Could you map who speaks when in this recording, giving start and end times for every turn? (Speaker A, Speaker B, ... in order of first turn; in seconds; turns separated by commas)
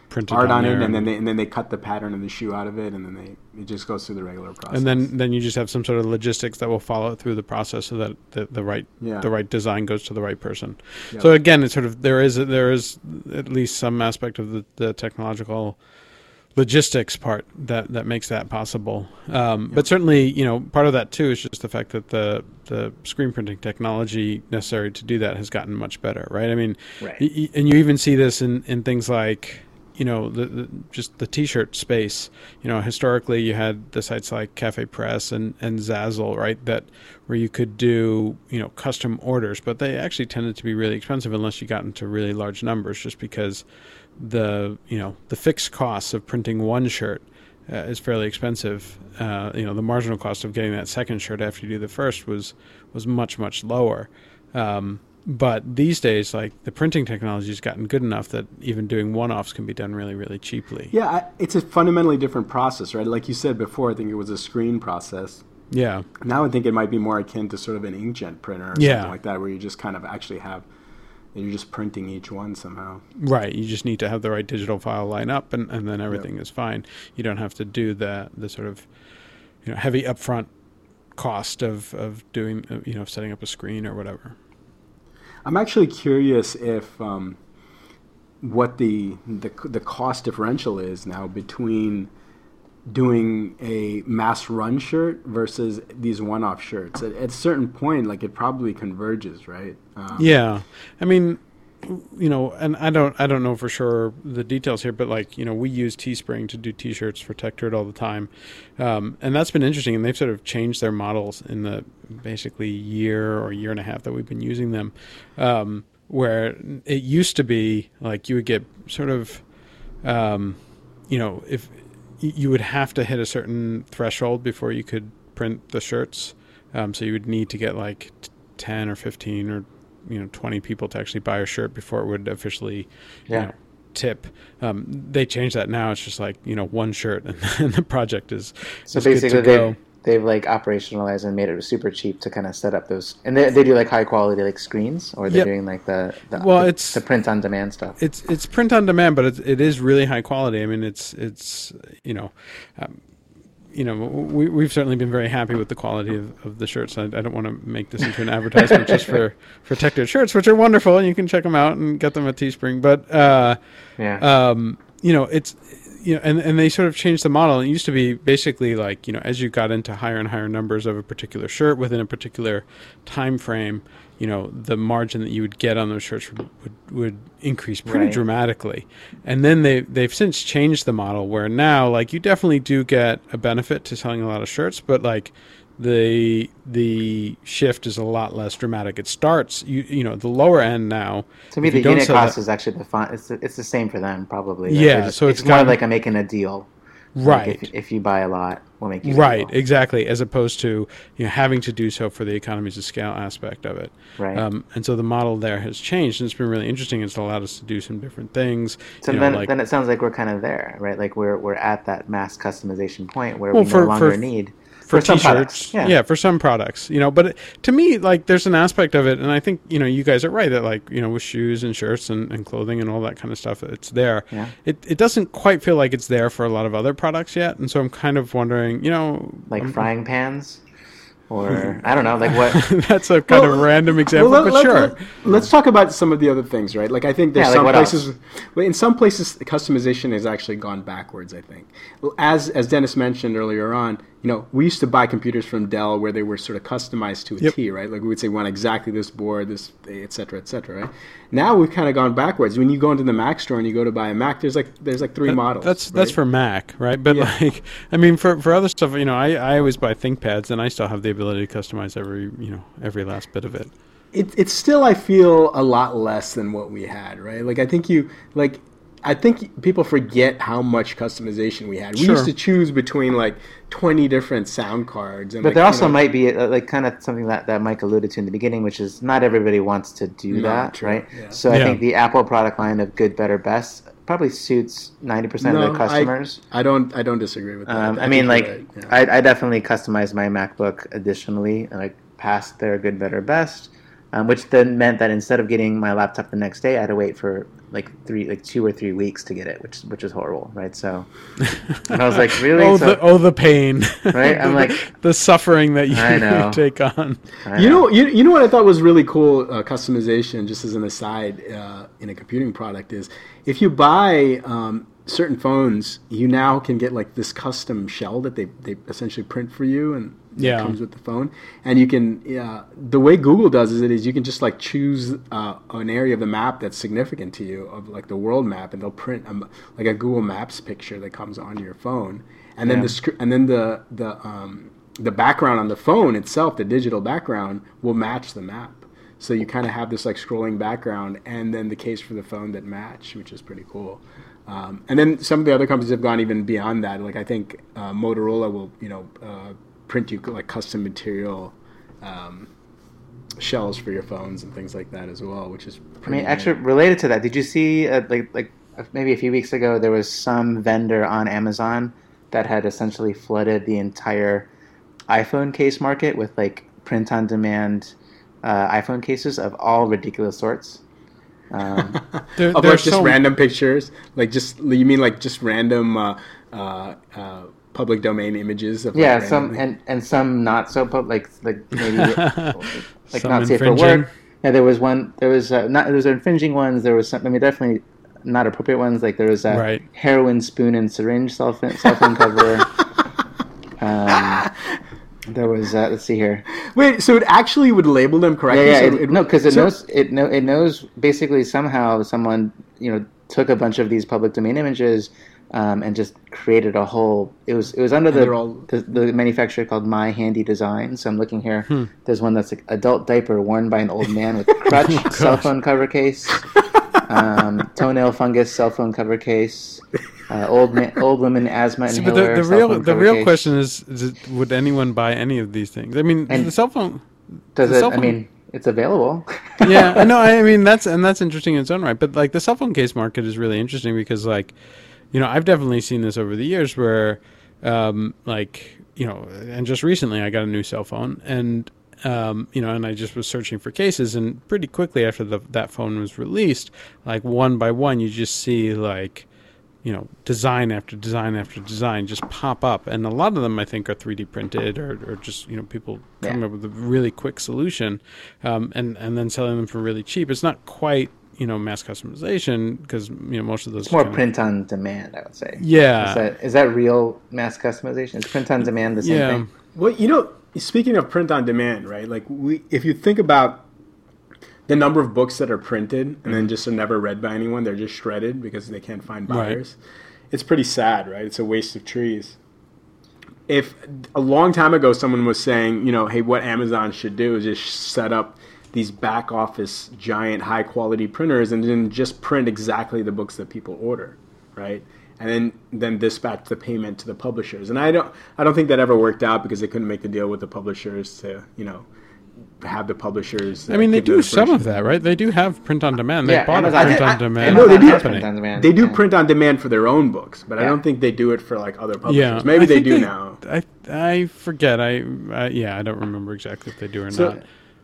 Speaker A: 0.1-1.1, Speaker B: 0.3-5.1, Speaker A: 4.7-15.8, Speaker B: 9.0-9.3, Speaker A: 16.5-43.6, Speaker C: 27.0-27.2, Speaker A: 44.2-60.9, Speaker B: 60.9-65.4, Speaker A: 65.7-66.1, Speaker B: 66.2-70.7, Speaker A: 68.8-69.1, Speaker B: 71.3-73.0, Speaker A: 73.2-78.9, Speaker A: 79.6-80.5, Speaker A: 81.1-84.4, Speaker B: 85.4-87.4, Speaker B: 88.4-92.1, Speaker B: 92.9-100.4, Speaker A: 100.2-119.4, Speaker A: 120.0-139.8, Speaker C: 138.9-148.0, Speaker A: 146.3-147.0, Speaker A: 148.0-153.0, Speaker A: 153.7-163.6, Speaker C: 164.0-164.2, Speaker A: 164.2-192.3, Speaker C: 177.8-178.2, Speaker C: 191.5-196.7, Speaker A: 194.7-195.8, Speaker A: 197.1-197.7, Speaker C: 197.2-199.5, Speaker A: 199.0-209.5, Speaker C: 204.2-204.4, Speaker C: 209.0-215.9, Speaker A: 213.5-214.2, Speaker A: 214.8-229.8, Speaker C: 229.5-230.6, Speaker C: 231.3-232.7, Speaker A: 232.2-234.9, Speaker B: 233.3-256.2, Speaker C: 237.3-238.1, Speaker A: 255.3-263.7, Speaker B: 264.1-276.0, Speaker A: 271.9-272.3, Speaker C: 275.4-286.4, Speaker B: 280.3-281.4, Speaker A: 281.5-281.8, Speaker B: 285.4-288.9, Speaker C: 287.7-301.1, Speaker C: 301.9-303.0, Speaker A: 302.3-307.2, Speaker C: 304.1-304.8, Speaker C: 305.9-306.6, Speaker C: 307.4-307.9, Speaker B: 307.5-352.5, Speaker A: 320.4-320.8, Speaker C: 332.6-333.0, Speaker B: 353.4-356.5, Speaker C: 356.1-364.5, Speaker C: 365.1-370.8, Speaker C: 371.5-372.0, Speaker B: 371.9-379.6, Speaker A: 372.4-373.2, Speaker C: 378.9-392.7, Speaker A: 381.8-384.1, Speaker A: 389.5-389.8, Speaker C: 393.8-394.4, Speaker B: 394.1-394.5, Speaker C: 395.3-396.4, Speaker B: 396.6-399.7, Speaker C: 398.5-416.4, Speaker B: 408.1-408.7, Speaker A: 414.8-415.4, Speaker C: 417.0-423.5, Speaker A: 421.9-427.1, Speaker C: 426.3-426.5, Speaker C: 427.6-430.0, Speaker A: 427.6-428.1, Speaker A: 429.6-434.5, Speaker A: 435.1-449.3, Speaker A: 449.8-464.2, Speaker C: 463.9-469.4, Speaker A: 465.6-466.2, Speaker A: 469.0-469.5, Speaker B: 469.7-473.6, Speaker B: 474.7-479.8, Speaker A: 479.3-479.6, Speaker B: 480.3-482.4, Speaker B: 483.5-501.9, Speaker B: 502.6-504.6, Speaker A: 503.7-508.3, Speaker C: 506.2-509.0, Speaker B: 506.8-513.4, Speaker A: 512.0-517.4, Speaker B: 517.1-517.4